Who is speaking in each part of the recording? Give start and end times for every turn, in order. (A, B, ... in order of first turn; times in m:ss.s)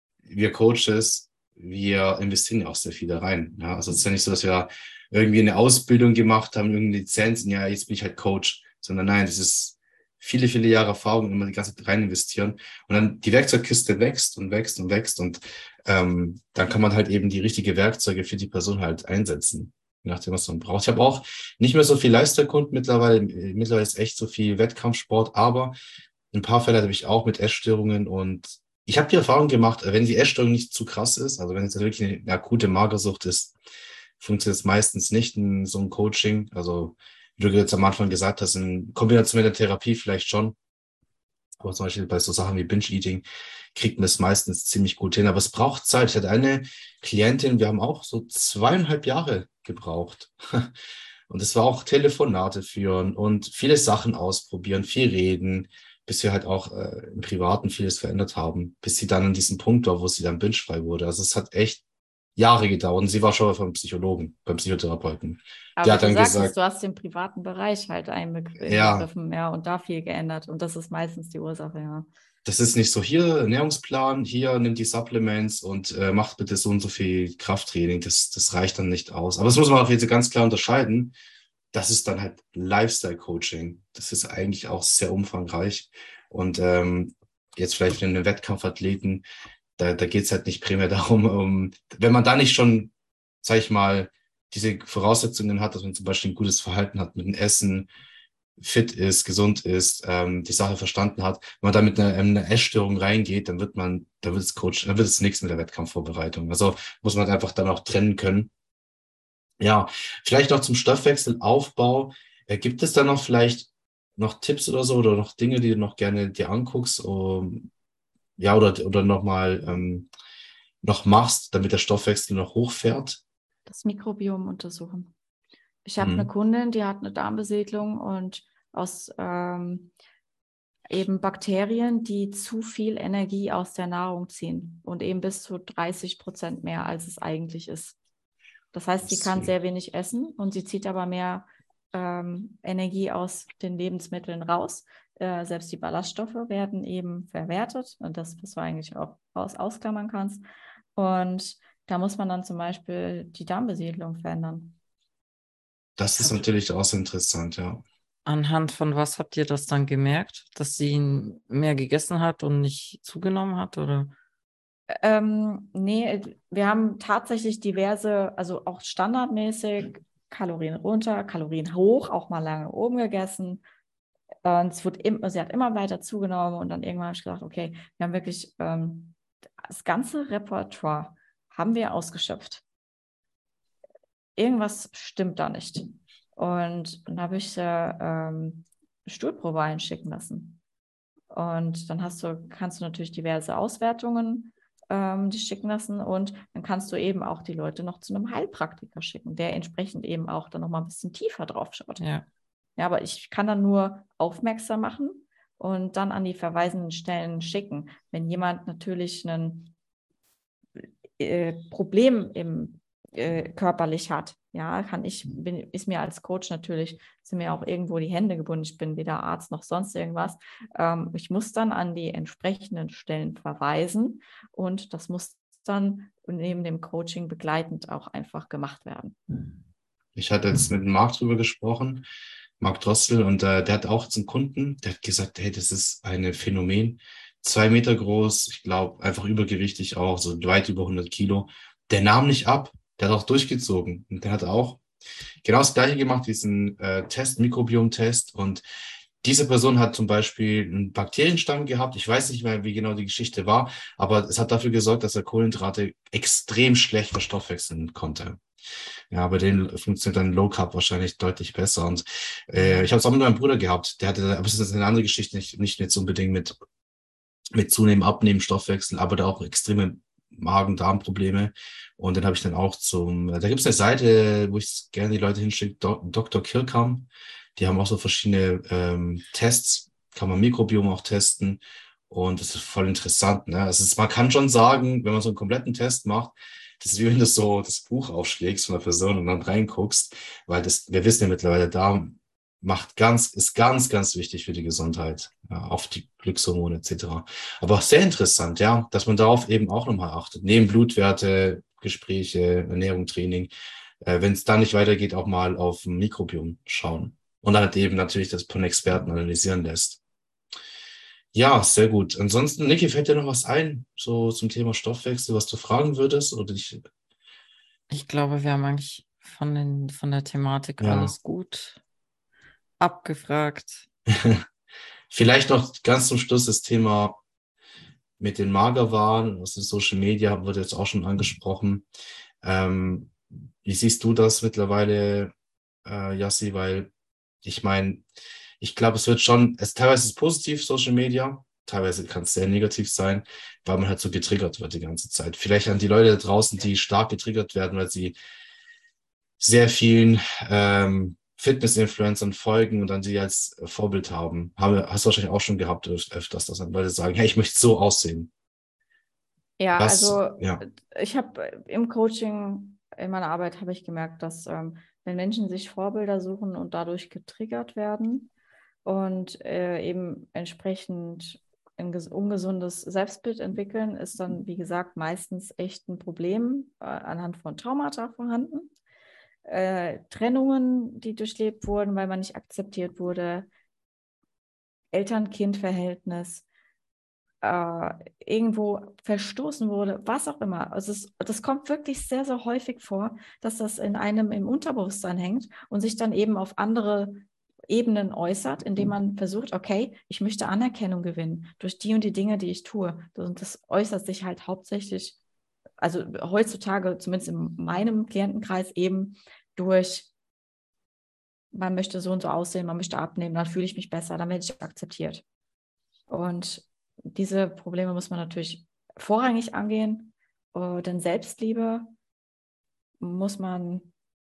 0:00.3-0:25.8 A
0:26.3-0:33.6 A
0:34.2-0:40.6 A
0:41.6-0:50.7 A
0:51.3-1:01.8 A
1:02.4-1:06.5 A
1:05.8-1:12.1 B
1:08.6-1:09.1 A
1:12.4-1:21.2 A
1:21.7-1:29.2 A
1:29.8-1:32.9 A
1:33.4-1:37.9 A
1:38.6-1:48.5 A
1:49.6-1:57.7 A
1:58.4-2:00.1 A
2:00.8-2:03.2 A
2:03.7-2:05.1 B
2:05.8-2:09.9 B
2:06.0-2:06.3 A
2:10.9-2:18.0 B
2:18.7-2:30.4 B
2:19.0-2:19.5 A
2:31.0-2:34.8 B
2:36.0-2:37.8 A
2:38.3-2:44.2 C
2:44.9-2:53.6 B
2:54.4-3:02.6 B
3:04.4-3:10.6 B
3:11.3-3:22.1 B
3:22.0-3:22.3 C
3:22.8-3:29.7 B
3:31.2-3:49.2 B
3:50.2-3:52.0 A
3:52.6-4:04.8 A
4:05.4-4:08.6 A
4:09.2-4:18.4 A
4:19.1-4:26.6 A
4:22.6-4:22.9 C
4:27.6-5:03.5 A
5:04.0-5:10.0 A
5:11.3-5:16.8 A
5:17.9-5:21.8 C
5:20.8-5:21.1 A
5:22.8-5:23.9 C
5:24.1-5:24.4 A
5:25.1-5:27.2 A
5:28.2-5:31.8 A
5:32.4-5:35.3 A
5:35.8-5:36.9 A
5:37.4-5:38.0 A
5:38.6-5:48.2 A
5:49.4-5:58.3 A
5:59.6-6:08.3 B
5:59.8-6:00.6 A
6:08.8-6:18.7 B
6:19.4-6:23.5 B
6:24.9-6:26.4 B
6:27.4-6:45.2 B
6:45.8-6:50.1 B
6:51.5-6:55.2 B
6:56.1-7:01.9 B
7:03.0-7:03.9 B